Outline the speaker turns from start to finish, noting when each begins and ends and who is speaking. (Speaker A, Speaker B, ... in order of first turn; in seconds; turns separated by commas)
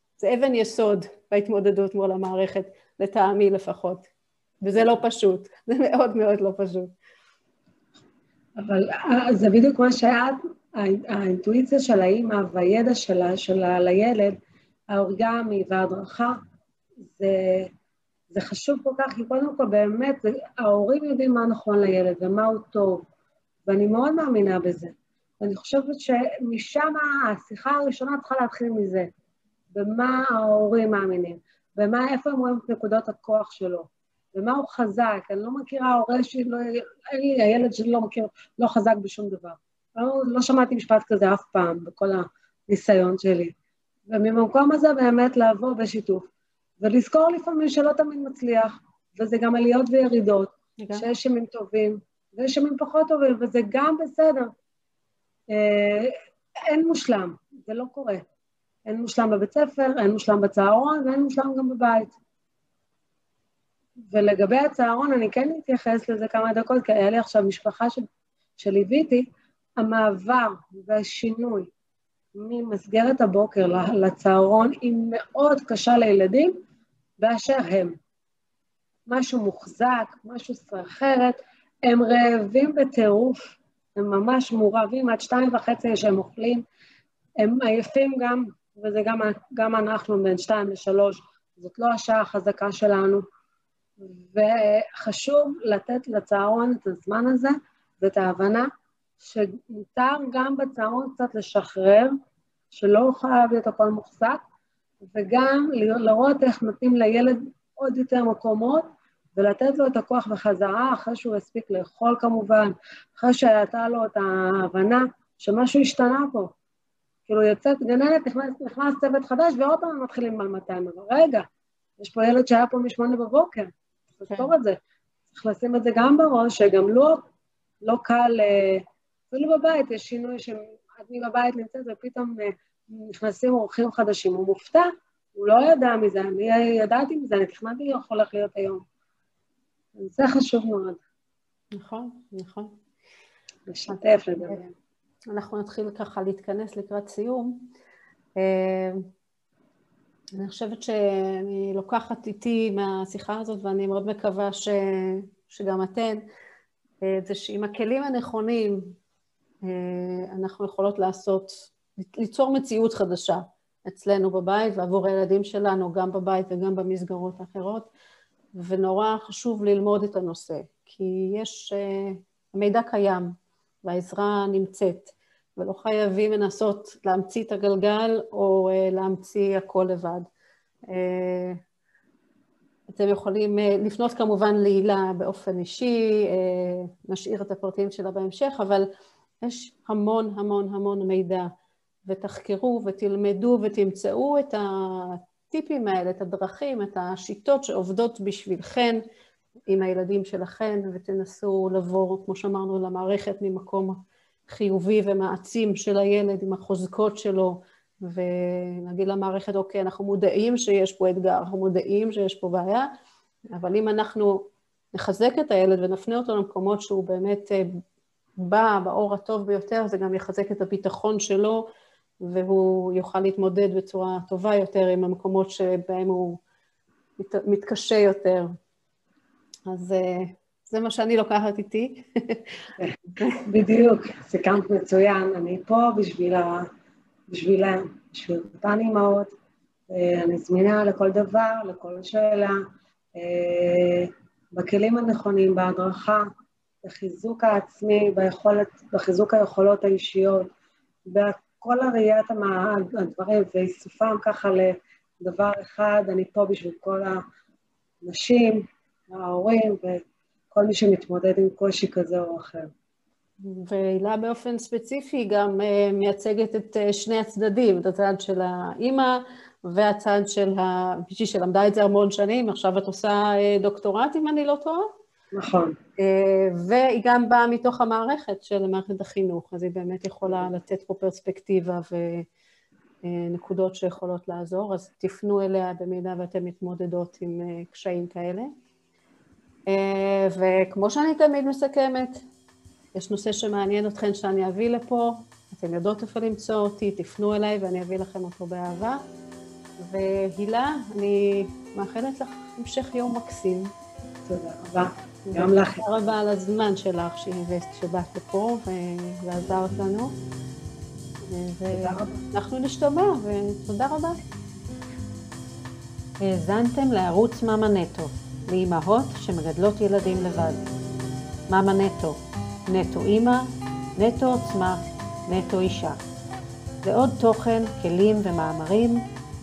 Speaker A: 0.2-4.1, Speaker A: 4.6-6.9, Speaker B: 8.6-14.4, Speaker B: 14.9-16.4, Speaker B: 17.0-17.7, Speaker B: 18.3-23.1, Speaker B: 23.6-29.1, Speaker B: 29.7-43.5, Speaker B: 44.1-46.3, Speaker B: 46.8-54.5, Speaker A: 50.8-51.1, Speaker B: 55.5-56.1, Speaker B: 56.7-58.2, Speaker B: 58.9-62.1, Speaker B: 64.1-68.0, Speaker B: 68.6-69.2, Speaker B: 69.8-71.7, Speaker B: 72.3-76.6, Speaker B: 77.2-78.0, Speaker B: 79.1-86.6, Speaker B: 87.4-93.2, Speaker B: 94.0-98.7, Speaker B: 99.2-102.1, Speaker B: 102.7-104.4, Speaker B: 105.0-116.5, Speaker B: 117.3-121.4, Speaker B: 122.0-124.8, Speaker B: 125.3-127.2, Speaker B: 127.8-138.8, Speaker B: 140.0-141.0, Speaker A: 141.7-142.7, Speaker B: 143.7-144.6, Speaker A: 143.9-144.7, Speaker A: 145.3-147.7, Speaker A: 148.4-149.1, Speaker A: 150.4-156.2, Speaker A: 157.0-158.9, Speaker A: 159.6-167.9, Speaker A: 168.6-180.3, Speaker A: 180.9-181.6, Speaker A: 182.9-188.9, Speaker A: 189.4-191.5, Speaker A: 192.1-199.0, Speaker A: 199.7-212.9, Speaker A: 213.5-217.8, Speaker A: 218.4-221.7, Speaker A: 222.2-226.4, Speaker A: 227.2-228.5, Speaker A: 229.7-233.4, Speaker B: 232.8-236.7, Speaker B: 237.3-239.3, Speaker B: 239.9-242.6, Speaker B: 243.1-246.3, Speaker B: 246.8-250.5, Speaker B: 251.1-257.2, Speaker B: 258.0-262.7, Speaker A: 263.4-274.9, Speaker B: 275.3-275.8, Speaker A: 276.0-282.3, Speaker A: 283.0-288.5, Speaker A: 289.7-292.2, Speaker A: 292.9-299.0, Speaker A: 299.8-303.7, Speaker B: 304.3-305.9, Speaker A: 305.3-310.1, Speaker A: 311.2-314.2, Speaker B: 311.7-312.2, Speaker A: 316.2-320.6, Speaker A: 321.5-326.0, Speaker A: 326.8-329.1